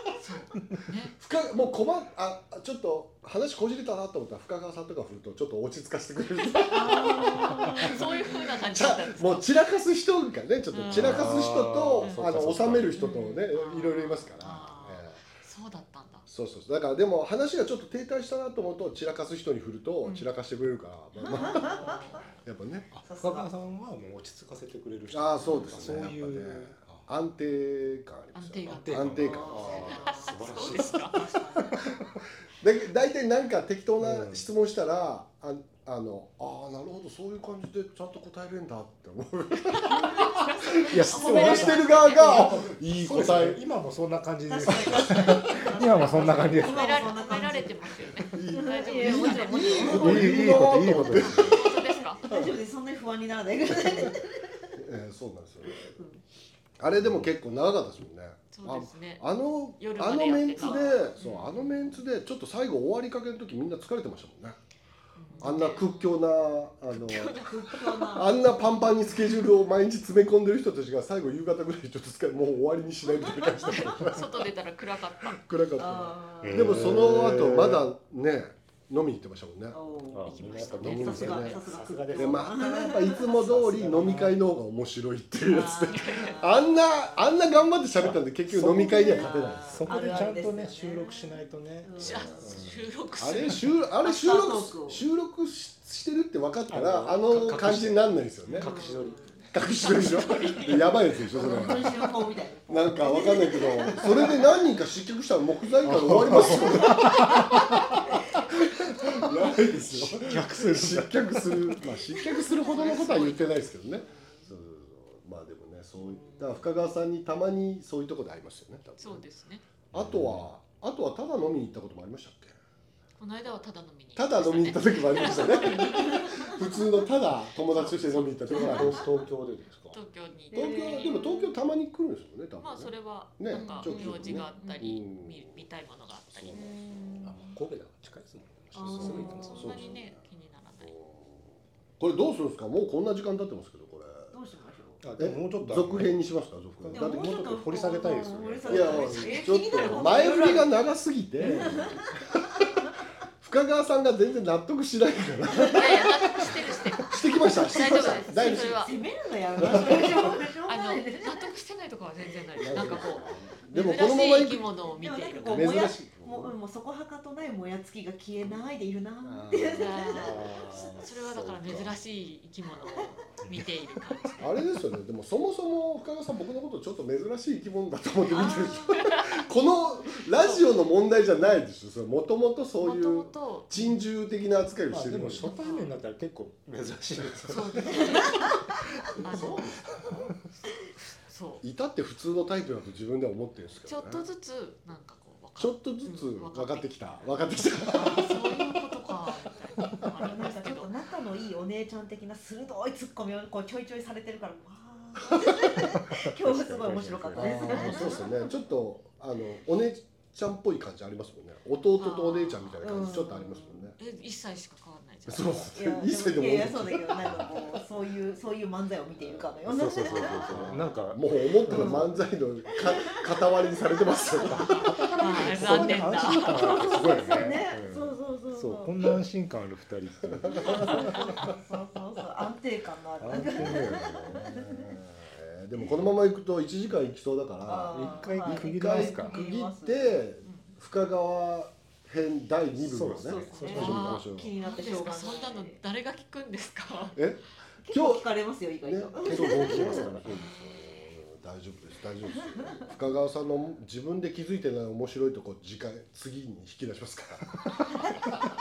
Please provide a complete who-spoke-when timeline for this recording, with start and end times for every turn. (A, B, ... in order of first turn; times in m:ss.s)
0:00.1-0:01.2 A
0:01.2-0:15.2 B
0:06.7-0:08.1 C
0:06.8-0:09.5 A
0:10.7-0:11.5 A
0:10.8-0:13.0 D
0:12.0-0:12.3 A
0:12.9-0:16.3 A
0:13.0-0:13.4 C
0:16.3-0:22.9 B
0:20.0-0:20.3 A
0:21.2-0:22.3 A
0:21.2-0:22.2 C
0:22.9-0:27.0 D
0:23.0-0:23.5 C
0:25.1-0:30.0 B
0:25.4-0:25.7 A
0:28.3-0:31.3 A
0:28.7-0:32.1 D
0:29.2-0:31.8 C
0:32.6-0:43.6 B
0:34.0-0:34.4 D
0:39.7-0:42.7 A
0:40.8-0:47.2 D
0:41.2-0:42.1 C
0:44.5-0:50.4 C
0:44.8-0:45.1 B
0:46.5-0:52.2 A
0:48.1-0:52.5 B
0:49.9-0:51.6 D
0:52.2-0:54.7 C
0:54.7-0:56.0 B
0:55.7-0:56.2 C
0:56.8-1:04.6 B
0:58.5-1:01.8 A
1:00.6-1:01.4 C
1:05.2-1:06.2 A
1:05.3-1:05.6 C
1:05.4-1:14.5 B
1:06.9-1:08.0 A
1:07.3-1:08.4 C
1:13.2-1:15.4 A
1:15.2-1:19.8 B
1:15.8-1:16.9 C
1:16.4-1:17.9 D
1:19.7-1:23.3 C
1:20.1-1:22.6 D
1:20.3-1:21.6 A
1:20.8-1:29.9 B
1:23.2-1:24.4 D
1:25.4-1:26.5 A
1:25.5-1:27.3 C
1:28.0-1:32.9 D
1:28.7-1:32.7 C
1:32.0-1:33.8 A
1:33.2-1:38.7 B
1:34.0-1:35.0 C
1:36.7-1:39.6 D
1:38.5-1:39.4 C
1:39.5-1:41.9 B
1:39.7-1:41.2 A
1:41.3-1:44.4 C
1:42.7-1:47.5 B
1:45.8-1:48.0 D
1:48.8-1:59.2 B
1:48.9-1:49.3 D
1:49.8-1:51.8 D
1:52.4-1:53.7 A
1:53.9-1:54.5 C
1:56.0-1:56.6 C
1:59.0-1:59.6 A
1:59.9-2:00.5 D
1:59.9-2:02.6 B
2:03.2-2:06.8 A
2:04.2-2:09.3 B
2:05.7-2:06.3 C
2:07.7-2:08.9 A
2:08.5-2:10.0 D
2:09.9-2:11.2 A
2:10.5-2:11.6 C
2:10.5-2:15.6 B
2:12.6-2:16.8 A
2:13.5-2:14.8 C
2:16.3-2:16.7 B
2:16.5-2:17.5 C
2:17.2-2:19.5 D
2:18.7-2:19.8 C
2:18.8-2:21.0 A
2:18.9-2:20.2 B
2:20.8-2:21.4 B
2:22.0-2:24.3 B
2:24.3-2:25.0 C
2:25.0-2:26.2 D
2:25.2-2:27.4 B
2:26.8-2:29.3 D
2:26.9-2:30.8 C
2:28.6-2:32.6 B
2:31.4-2:32.1 C
2:33.4-2:38.9 B
2:35.6-2:39.0 A
2:37.4-2:41.5 C
2:39.6-2:40.3 B
2:39.7-2:45.9 A
2:42.6-2:44.7 B
2:44.9-2:50.9 C
2:45.4-2:46.6 B
2:49.2-2:50.2 B
2:49.7-2:54.6 A
2:50.1-2:51.9 D
2:54.4-3:05.5 B
2:58.3-2:59.4 A
2:58.4-2:58.8 C
3:00.2-3:00.7 A
3:02.8-3:04.0 A
3:04.9-3:10.3 D
3:05.4-3:05.9 A
3:07.5-3:08.6 A
3:09.2-3:10.2 B
3:09.2-3:11.6 A
3:11.6-3:14.2 B
3:13.8-3:20.9 A
3:15.6-3:18.8 B
3:20.1-3:28.3 C
3:25.7-3:28.2 D
3:27.3-3:34.0 B
3:27.8-3:28.3 A
3:32.0-3:32.9 A
3:32.8-3:33.8 C
3:34.0-3:35.7 A
3:35.3-3:37.8 B
3:35.7-3:40.8 C
3:39.2-3:46.0 B
3:39.6-3:42.1 D
3:41.7-3:42.1 C
3:42.7-3:43.2 C
3:44.1-3:45.1 C
3:44.5-3:46.5 A
3:44.7-3:51.4 D
3:46.2-3:48.9 C
3:50.3-3:51.4 B
3:50.5-3:54.9 C
3:53.2-3:54.5 D
3:53.6-4:04.5 B
3:57.6-4:00.2 C
3:57.9-3:59.3 D
4:00.4-4:00.7 A
4:02.7-4:04.0 D
4:03.2-4:05.8 C
4:03.5-4:07.2 A
4:07.2-4:08.3 B
4:07.8-4:10.1 C
4:08.8-4:18.0 B
4:09.2-4:10.4 D
4:10.2-4:10.8 A
4:12.4-4:12.9 C